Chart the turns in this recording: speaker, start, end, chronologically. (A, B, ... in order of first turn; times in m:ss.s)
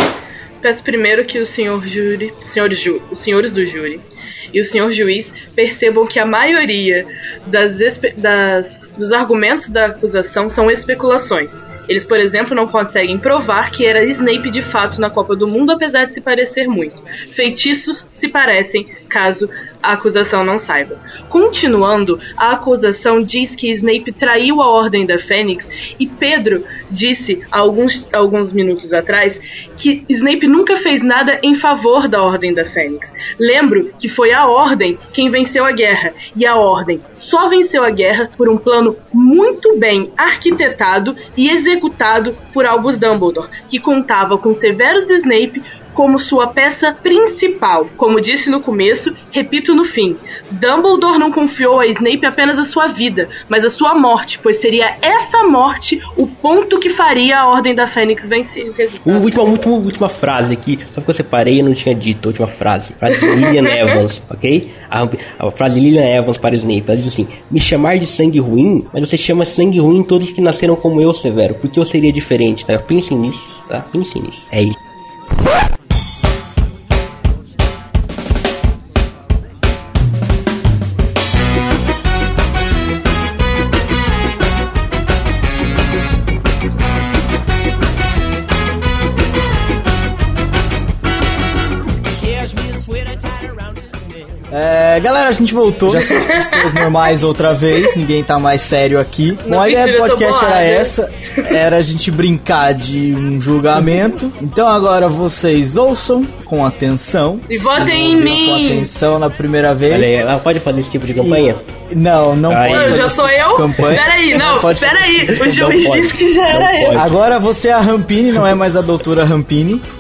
0:00.6-0:59.7 A
0:59.0-1:14.8 B
1:03.2-1:04.0 A
1:32.2-1:34.4 B
1:34.5-1:50.1 C
1:35.9-1:37.1 A
1:39.5-1:41.5 A
1:47.5-1:48.9 A
1:49.9-1:51.6 B
1:51.2-1:56.0 C
1:52.5-1:53.3 B
1:52.7-1:57.0 A
1:53.8-1:54.5 B
1:55.3-1:57.2 B
1:56.9-1:59.8 C